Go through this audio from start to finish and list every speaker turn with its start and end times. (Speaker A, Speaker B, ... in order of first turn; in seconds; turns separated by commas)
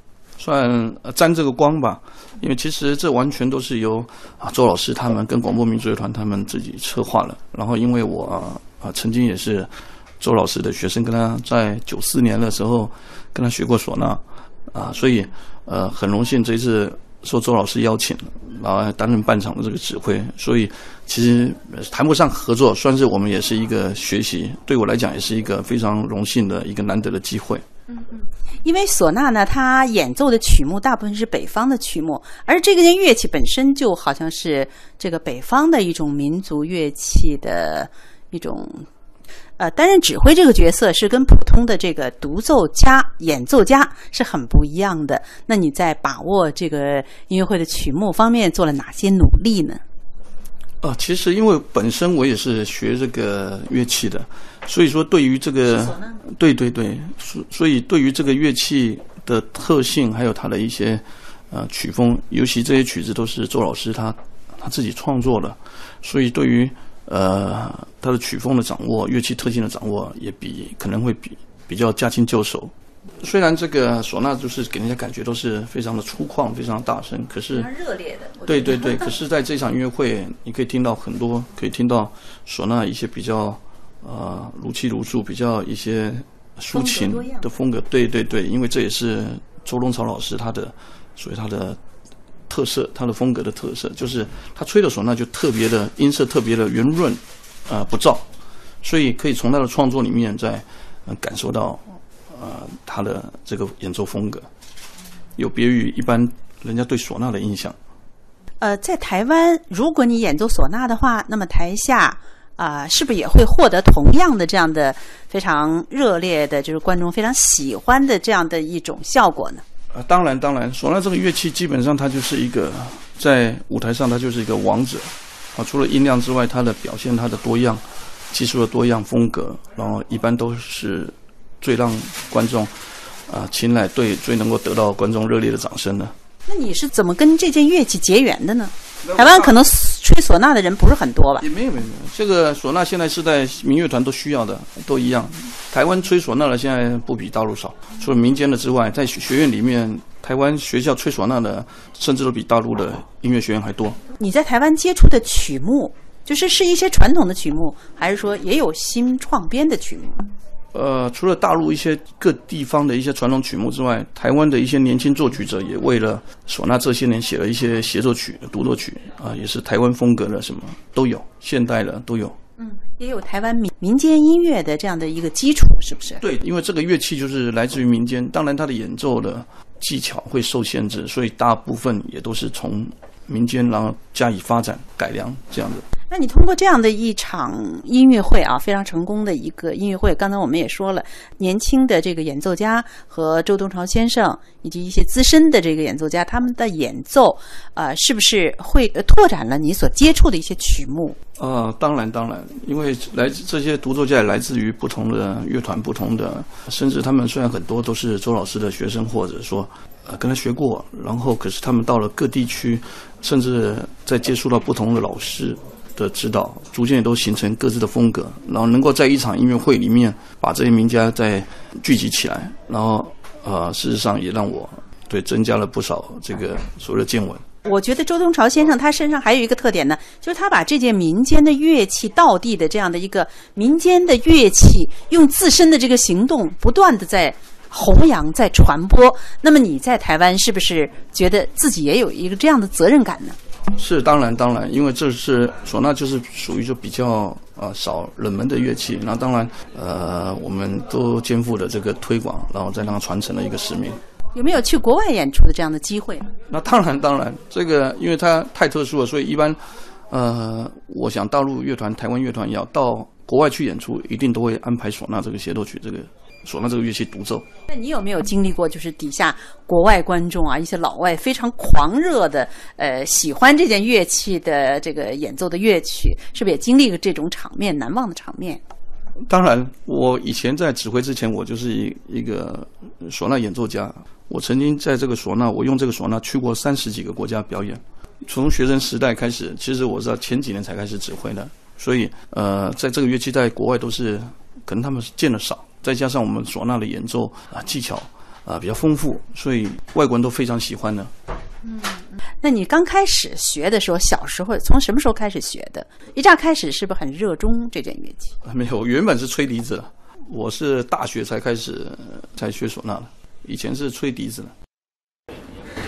Speaker A: 0.4-27.6, Speaker B: 27.9-38.9, Speaker B: 39.6-49.8, Speaker A: 50.8-77.7, Speaker B: 55.8-56.2, Speaker B: 77.5-79.0, Speaker A: 78.4-91.8, Speaker B: 86.7-87.5, Speaker A: 92.5-98.2, Speaker A: 98.8-104.5, Speaker A: 105.3-107.7, Speaker B: 108.6-119.6, Speaker A: 119.9-132.7, Speaker A: 133.3-136.1, Speaker B: 136.5-141.4, Speaker A: 139.0-139.6, Speaker A: 141.4-154.0, Speaker B: 154.2-160.3, Speaker A: 160.7-172.3, Speaker B: 172.6-176.2, Speaker A: 176.2-185.8, Speaker B: 186.1-201.2, Speaker A: 201.4-227.4, Speaker B: 227.7-243.4, Speaker A: 243.7-254.0, Speaker B: 254.3-256.3, Speaker A: 256.5-259.6, Speaker A: 260.1-267.4, Speaker B: 267.7-278.6, Speaker A: 279.3-301.1, Speaker B: 301.6-308.4, Speaker A: 308.4-314.5